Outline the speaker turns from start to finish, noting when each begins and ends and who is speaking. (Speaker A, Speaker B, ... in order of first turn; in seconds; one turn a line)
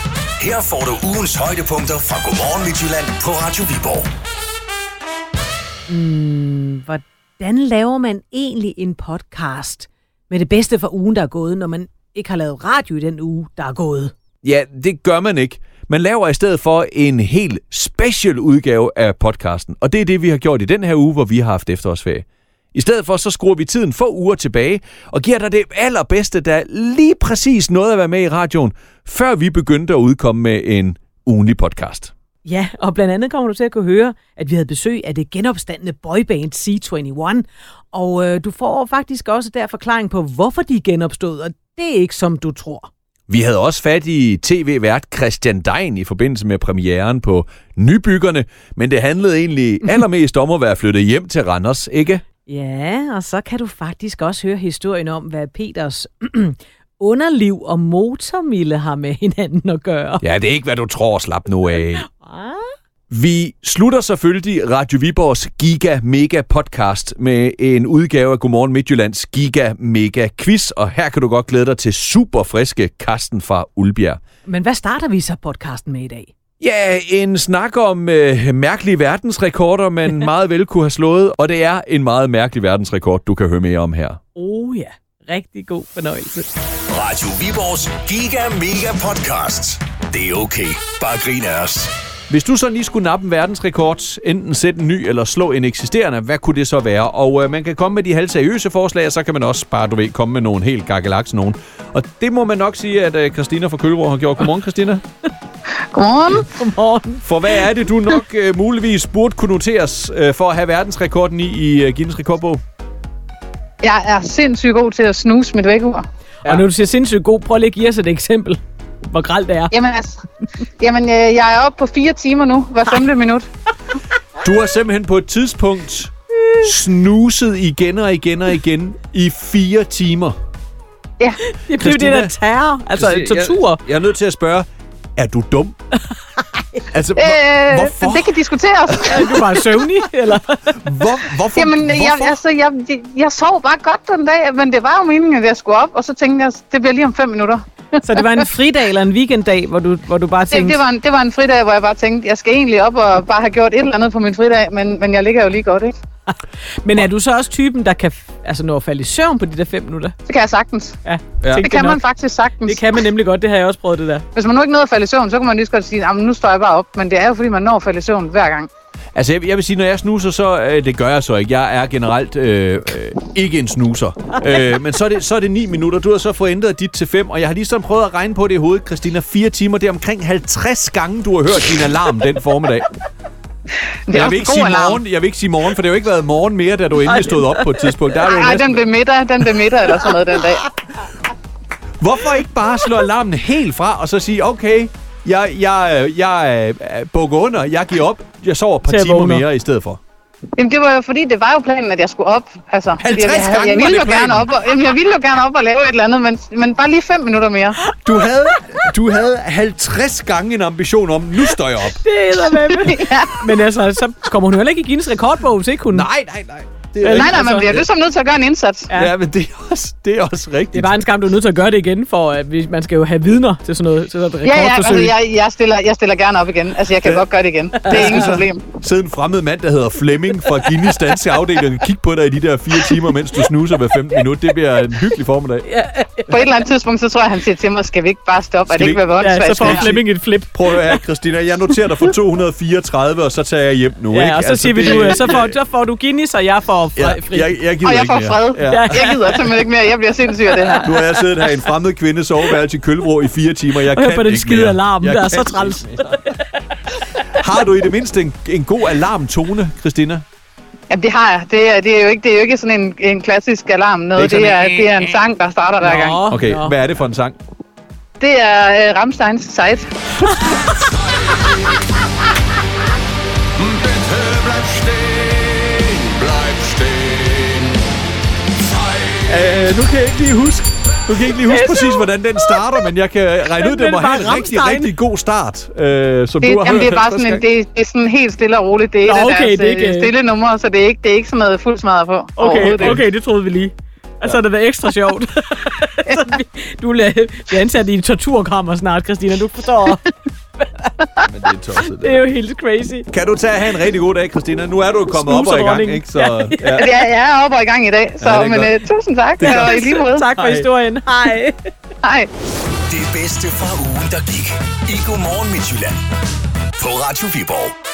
Speaker A: 0.4-4.1
Speaker B: 5.9-14.1
Speaker C: 14.4-32.1
Speaker B: 32.5-42.9
Speaker C: 43.3-52.2
Speaker B: 52.5-60.2
Speaker C: 60.2-62.1
Speaker B: 62.0-62.7
Speaker C: 63.1-74.2
Speaker B: 74.5-76.3
Speaker C: 76.6-84.2
Speaker B: 84.4-86.5
Speaker A: 86.9-91.9
Speaker C: 92.3-105.0
Speaker D: 105.9-106.5
Speaker B: 106.5-107.6
Speaker C: 107.2-112.6
Speaker D: 113.8-116.0
Speaker B: 116.4-119.7
Speaker D: 119.7-120.2
Speaker D: 120.8-123.5
Speaker C: 124.4-130.4
Speaker B: 131.4-133.8
Speaker C: 131.8-132.3
Speaker C: 133.0-135.8
Speaker C: 136.9-138.3
Speaker D: 137.2-139.4
Speaker C: 138.9-139.2
Speaker B: 139.1-140.8
Speaker C: 140.8-142.4
Speaker D: 141.6-148.4
Speaker B: 148.1-150.8
Speaker D: 150.5-155.9
Speaker B: 156.3-160.2
Speaker D: 160.3-161.0
Speaker B: 161.1-162.0
Speaker D: 161.6-162.9
Speaker B: 162.7-164.3
Speaker D: 164.3-168.7
Speaker C: 169.2-182.9
Speaker D: 184.1-185.0
Speaker C: 184.1-188.8
Speaker B: 187.1-187.9
Speaker D: 188.2-190.7
Speaker C: 192.0-200.0
Speaker B: 198.9-199.4
Speaker D: 200.6-207.8
Speaker C: 203.0-204.5
Speaker C: 208.0-212.0
Speaker B: 212.0-216.1
Speaker D: 212.8-213.4
Speaker C: 215.9-217.9
Speaker B: 217.0-217.7
Speaker D: 217.1-218.9
Speaker C: 218.9-221.0
Speaker B: 220.7-225.1
Speaker D: 224.4-228.7
Speaker C: 227.9-235.7
Speaker B: 235.7-236.3
Speaker D: 236.3-239.9
Speaker C: 238.7-239.0
Speaker B: 239.2-241.0
Speaker C: 239.6-245.6
Speaker B: 244.1-247.5
Speaker C: 247.0-249.1
Speaker D: 247.8-250.9
Speaker B: 248.7-249.4
Speaker B: 250.6-251.5
Speaker C: 250.8-256.3
Speaker B: 253.8-256.6
Speaker C: 257.3-260.2
Speaker D: 260.9-266.2
Speaker C: 264.2-265.2
Speaker B: 265.8-266.8
Speaker C: 266.3-267.4
Speaker D: 268.2-269.9
Speaker E: 270.8-271.4
Speaker E: 273.6-277.8
Speaker E: 278.6-279.5
Speaker C: 279.3-287.4
Speaker B: 281.5-282.5
Speaker B: 283.6-284.9
Speaker D: 286.4-293.0
Speaker B: 289.1-290.1
Speaker B: 292.4-300.9
Speaker C: 301.2-302.2
Speaker B: 301.9-303.1
Speaker C: 303.1-306.9
Speaker B: 305.1-306.8
Speaker D: 306.8-310.3
Speaker C: 308.2-308.8
Speaker C: 309.4-310.7
Speaker B: 309.4-311.6
Speaker D: 312.0-312.3
Speaker A: 312.9-316.0
Speaker A: 316.8-317.7